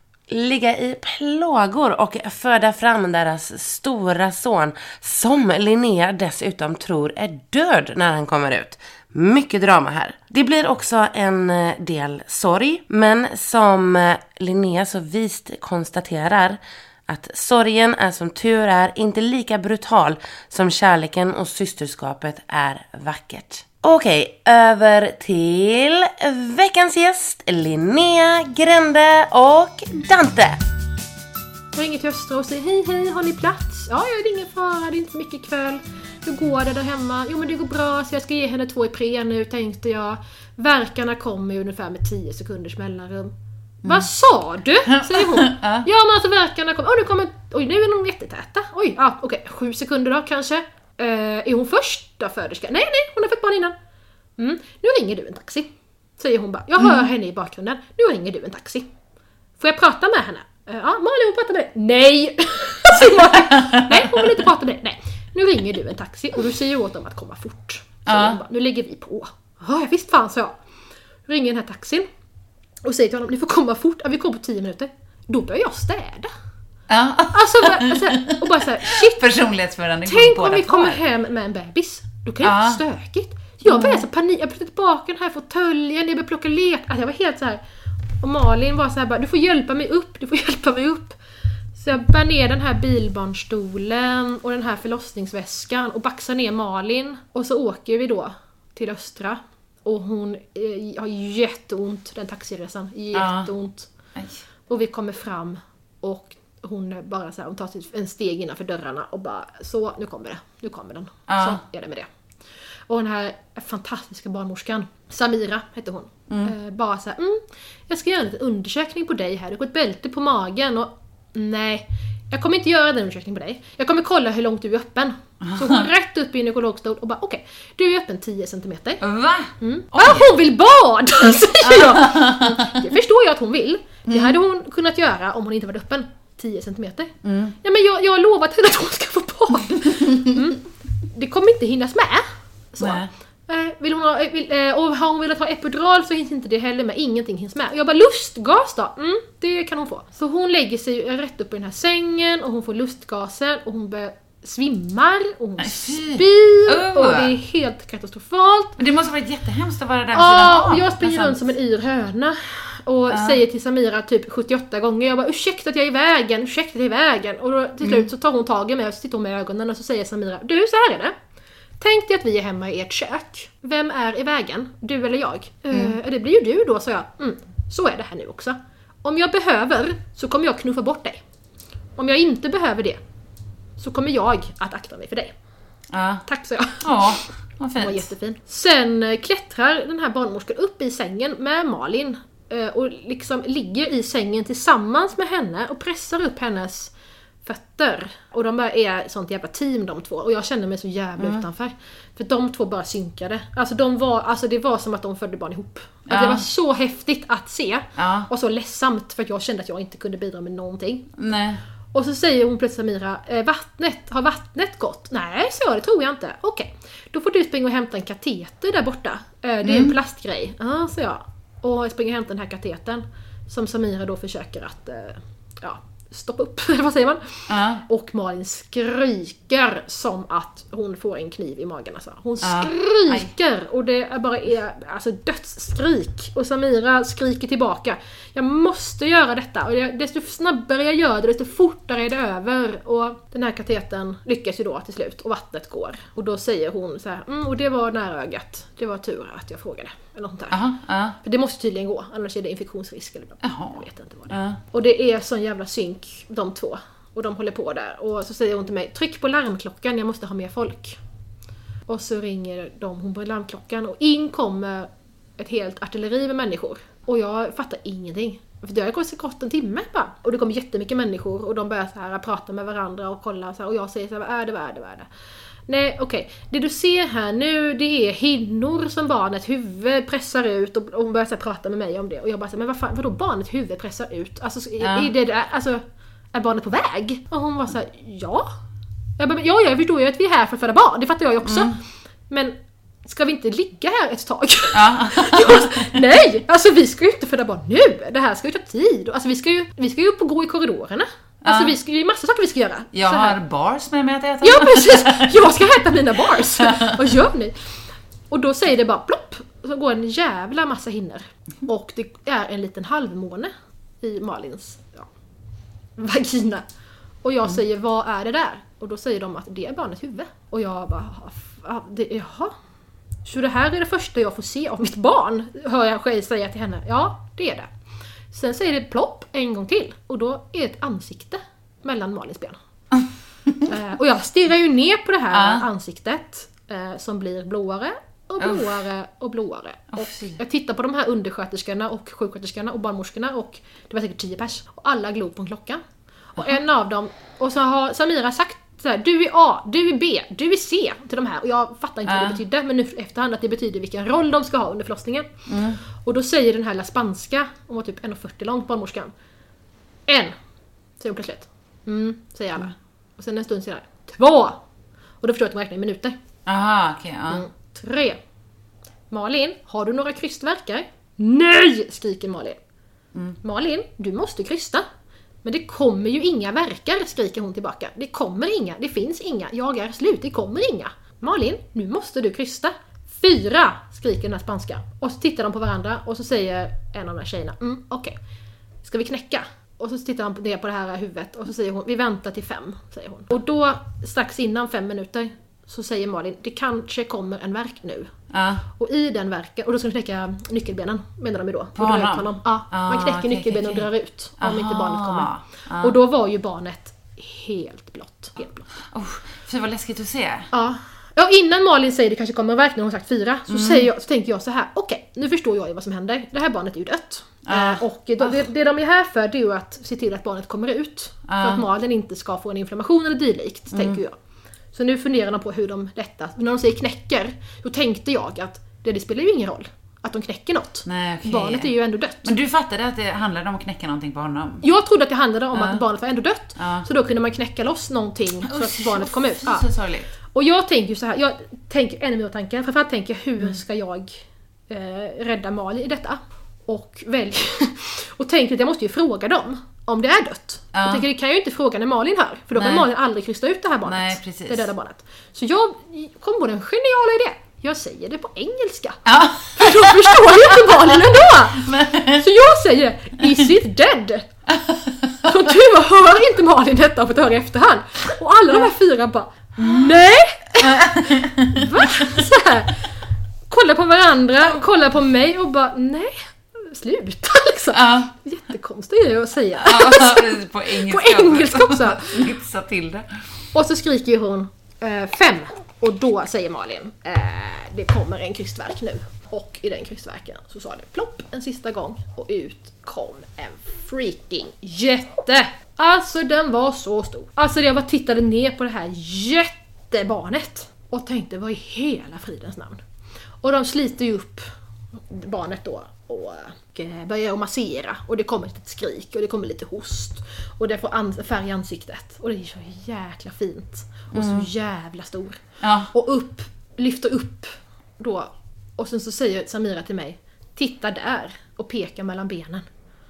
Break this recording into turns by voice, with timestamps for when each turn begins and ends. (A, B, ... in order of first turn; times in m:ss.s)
0:00.3-0:30.6 A
0:31.7-0:43.3 B
0:43.8-0:53.8 B
0:44.9-0:45.8 C
0:54.4-0:58.9 B
0:59.6-1:10.6 B
1:03.5-1:04.2 C
1:08.1-1:08.4 C
1:11.3-1:12.1 B
1:12.8-1:16.3 B
1:16.9-1:21.0 C
1:17.3-1:19.2 B
1:20.0-1:27.6 B
1:22.4-1:22.8 C
1:23.6-1:24.0 C
1:28.2-1:31.2 B
1:31.8-1:43.9 B
1:43.1-1:43.5 C
1:44.1-1:44.4 C
1:44.7-1:52.1 B
1:51.3-1:51.6 C
1:52.9-2:09.0 B
2:05.4-2:05.9 C
2:09.0-2:10.3 C
2:09.6-2:38.8 B
2:11.6-2:12.7 C
2:14.1-2:14.4 C
2:17.2-2:17.5 C
2:20.0-2:20.4 C
2:22.8-2:23.1 C
2:35.6-2:37.3 C
2:38.8-2:41.5 C
2:40.1-2:51.1 B
2:43.1-2:43.4 C
2:51.8-3:01.2 B
3:02.0-3:03.0 B
3:03.8-3:05.3 B
3:05.9-3:06.2 C
3:06.2-3:07.2 B
3:06.8-3:08.0 C
3:07.8-3:16.9 B
3:17.4-3:31.1 B
3:21.2-3:21.4 C
3:26.1-3:26.4 C
3:28.0-3:28.3 C
3:31.2-3:31.6 C
3:31.9-4:10.6 B
3:39.6-3:39.9 C
3:47.5-3:47.8 C
3:52.4-3:53.3 C
4:10.5-4:11.2 C
4:11.2-4:21.0 B
4:13.4-4:14.6 C
4:21.9-4:35.1 B
4:35.7-4:48.5 B
4:44.8-4:45.1 C
4:49.2-5:03.4 B
4:51.4-4:51.8 C
4:54.7-4:56.0 C
5:01.4-5:01.7 C
5:02.9-5:05.5 C
5:04.4-5:07.6 B
5:06.6-5:07.0 C
5:08.3-5:15.1 B
5:16.0-5:16.6 B
5:17.2-5:22.5 B
5:23.2-5:27.7 B
5:28.3-5:32.6 B
5:33.6-5:45.8 B
5:35.3-5:35.6 C
5:38.4-5:38.7 C
5:39.9-5:40.4 C
5:46.3-5:55.3 B
5:52.1-5:52.4 C
5:55.5-5:55.8 C
5:55.8-5:59.1 B
6:00.1-6:00.3 B
6:01.0-6:04.6 B
6:05.2-6:06.2 B
6:06.4-6:07.4 C
6:07.3-6:08.2 B
6:09.1-6:12.6 B
6:13.4-6:14.8 B
6:15.4-6:28.2 B
6:28.8-6:38.1 B
6:38.3-6:38.6 C
6:38.7-6:48.7 B
6:41.8-6:43.9 C
6:44.4-6:45.9 C
6:48.9-6:50.5 C
6:50.5-7:04.2 B
6:53.5-6:53.9 C
6:57.5-6:57.8 C
7:01.3-7:01.6 C
7:03.7-7:04.0 C
7:04.7-7:12.3 B
7:10.8-7:11.7 C
7:12.2-7:14.6 C
7:14.6-7:19.7 B
7:15.5-7:15.8 C
7:16.6-7:16.8 C
7:18.4-7:20.1 C
7:20.3-7:44.3 B
7:30.7-7:31.0 C
7:32.6-7:32.9 C
7:33.8-7:34.7 C
7:39.1-7:42.3 C
7:44.5-7:45.2 C
7:45.2-7:52.8 B
7:50.6-7:52.2 C
7:53.5-8:02.2 B
7:57.7-7:58.1 C
7:59.6-8:03.3 C
8:03.5-8:22.8 B
8:23.4-8:24.4 B
8:25.0-8:42.6 B
8:34.1-8:34.5 C
8:35.6-8:35.9 C